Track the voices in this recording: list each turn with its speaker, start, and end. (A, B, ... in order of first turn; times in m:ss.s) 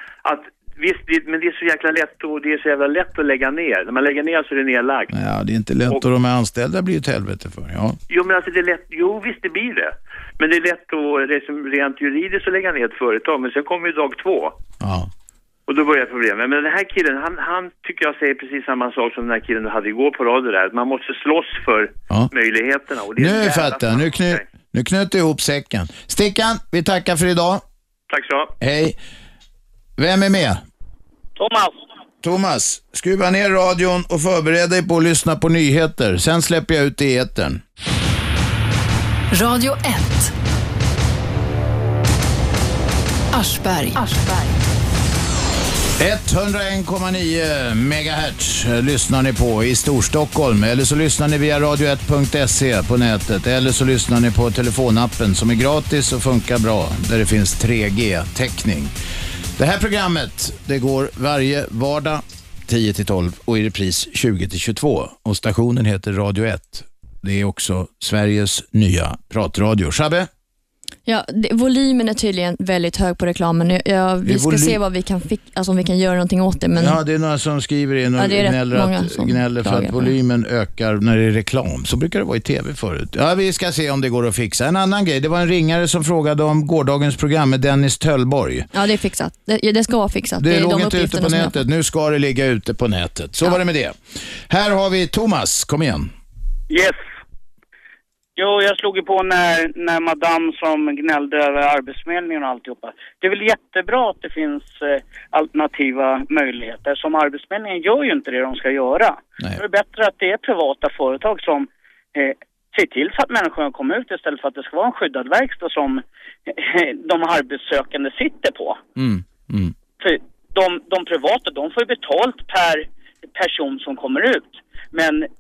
0:00.3-0:05.1 A
0:02.8-0:03.2 B
0:05.1-0:08.0 C
0:08.1-0:09.8 A
0:10.4-0:13.1 A
0:11.9-0:13.8 B
0:13.8-0:14.6 A
0:14.8-0:15.1 C
0:15.7-0:23.1 A
0:23.2-0:27.6 C
0:23.2-0:23.7 B
0:28.6-0:29.0 C
0:30.0-0:30.6 C
0:31.4-0:31.7 B
0:32.2-0:37.6 C
0:39.3-0:40.3 D
0:43.3-0:44.6 D
0:46.0-0:58.9 C
0:59.6-1:10.3 C
1:11.1-1:17.0 E
1:14.2-1:14.8 C
1:16.8-1:28.7 C
1:18.2-1:20.1 E
1:28.7-1:31.6 E
1:30.4-1:36.1 C
1:36.7-1:37.0 B
1:38.4-1:56.0 B
1:56.8-1:58.8 B
1:59.0-1:59.7 C
2:00.0-2:02.8 B
2:03.4-2:05.3 B